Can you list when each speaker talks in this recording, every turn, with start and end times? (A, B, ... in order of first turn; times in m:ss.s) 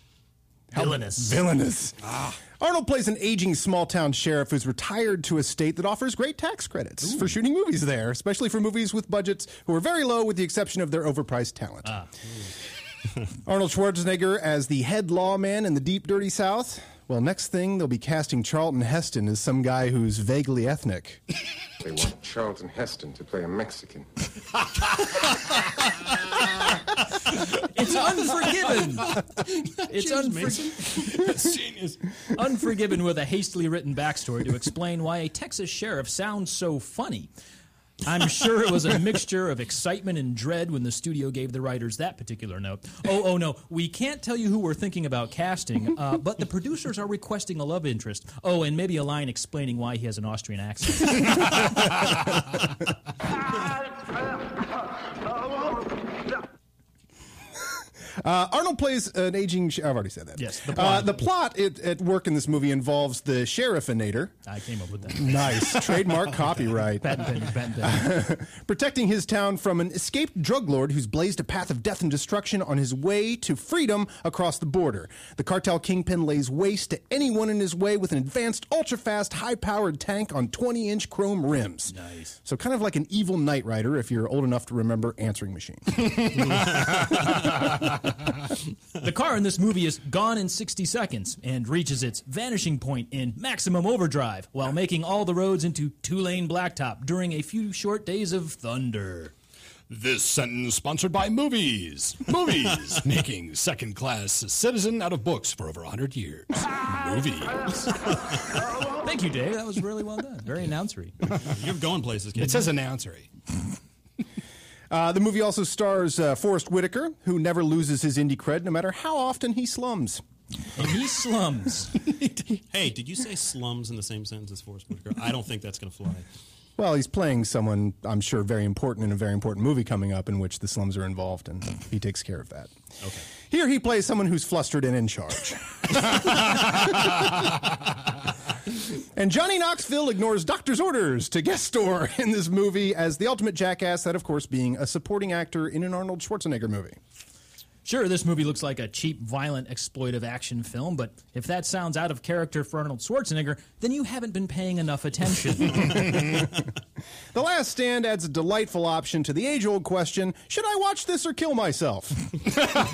0:00.7-0:02.0 A
0:00.7-0:01.4 B
0:02.5-0:11.9 A
0:13.4-0:21.2 A
0:21.8-0:24.0 C
0:27.6-0:29.2 B
0:29.1-0:32.0 D
0:29.9-0:31.0 B
0:32.3-0:37.3 B
0:38.0-0:51.7 B
0:58.2-1:04.3 A
1:00.4-1:01.2 B
1:04.4-1:05.9 B
1:05.2-1:07.3 A
1:07.0-1:08.2 B
1:07.8-1:21.9 A
1:21.9-1:22.4 B
1:22.4-1:26.6 A
1:29.0-1:39.3 B
1:39.9-1:48.0 D
1:49.0-1:51.1 B
1:51.4-1:52.7 E
1:52.4-1:53.3 D
1:54.9-2:00.2 A
2:00.8-2:02.0 B
2:02.7-2:06.3 E
2:06.8-2:12.7 A
2:13.3-2:17.4 A
2:18.9-2:27.0 A
2:27.8-2:36.0 B
2:37.3-2:42.4 A